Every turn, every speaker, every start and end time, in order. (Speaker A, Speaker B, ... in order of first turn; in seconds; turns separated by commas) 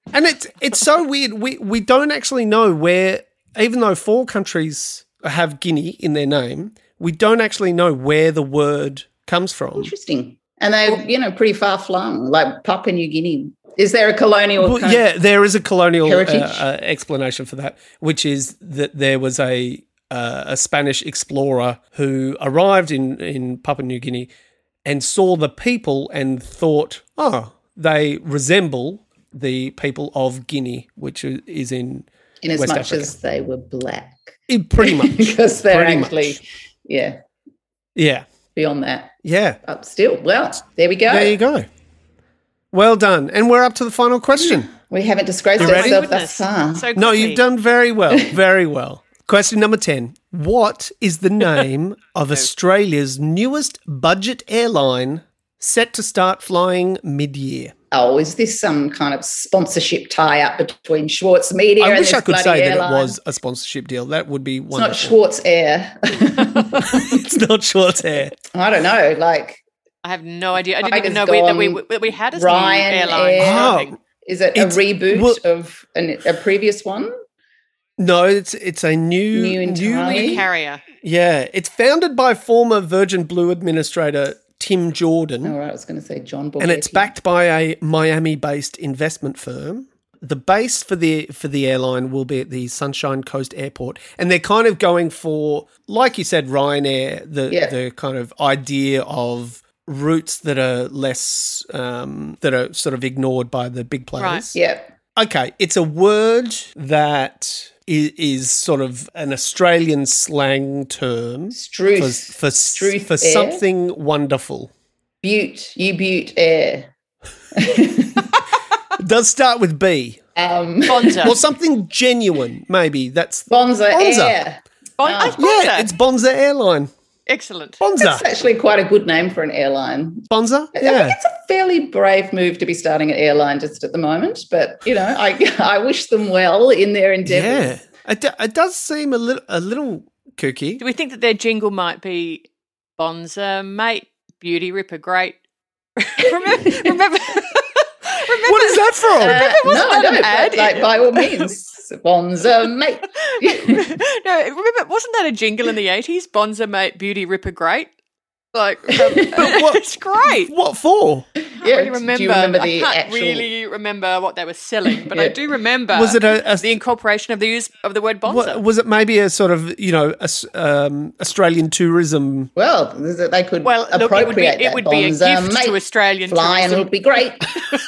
Speaker A: 0.1-9.9, Speaker B: 9.8-15.0, Speaker A: 14.6-24.3, Speaker B: 16.0-16.6, Speaker A: 24.8-33.1, Speaker B: 32.4-37.2, Speaker A: 34.5-36.4, Speaker A: 38.0-38.3, Speaker B: 38.5-41.4, Speaker A: 39.2-39.6, Speaker A: 41.1-41.7, Speaker A: 42.7-44.7, Speaker B: 44.4-46.9, Speaker A: 45.6-46.0, Speaker C: 45.6-47.4, Speaker A: 47.0-57.7, Speaker B: 57.9-63.2, Speaker A: 61.8-65.1, Speaker B: 64.7-67.3, Speaker A: 66.8-68.3, Speaker B: 68.5-69.6, Speaker C: 70.0-73.9, Speaker B: 70.8-73.7, Speaker A: 73.4-73.9, Speaker B: 74.2-77.1, Speaker A: 74.5-75.4, Speaker A: 78.0-80.4, Speaker B: 79.3-80.5, Speaker C: 80.1-80.8, Speaker A: 81.0-85.5, Speaker B: 85.4-87.1, Speaker A: 86.6-104.6, Speaker B: 97.5-97.8, Speaker C: 104.2-104.5, Speaker B: 104.5-104.9, Speaker A: 105.2-114.7, Speaker B: 111.5-113.6, Speaker B: 115.2-116.9, Speaker B: 117.5-118.3, Speaker A: 119.0-120.2, Speaker B: 120.3-121.4, Speaker C: 120.9-121.4, Speaker A: 121.2-124.4, Speaker B: 123.5-125.4, Speaker C: 125.0-125.9, Speaker A: 125.4-126.9, Speaker C: 127.3-127.8, Speaker A: 127.8-128.2, Speaker B: 128.0-137.7, Speaker A: 130.3-131.2, Speaker A: 137.3-140.8, Speaker C: 140.8-145.4, Speaker C: 146.0-151.5, Speaker B: 146.5-147.0, Speaker A: 148.4-149.5, Speaker B: 149.2-153.9, Speaker C: 153.2-157.9, Speaker C: 158.5-160.5, Speaker B: 158.9-159.3, Speaker A: 159.3-161.3, Speaker B: 161.4-163.5, Speaker C: 161.6-168.6, Speaker B: 164.9-165.3, Speaker A: 165.9-166.8, Speaker A: 168.2-172.5, Speaker B: 172.6-177.5, Speaker C: 173.6-176.9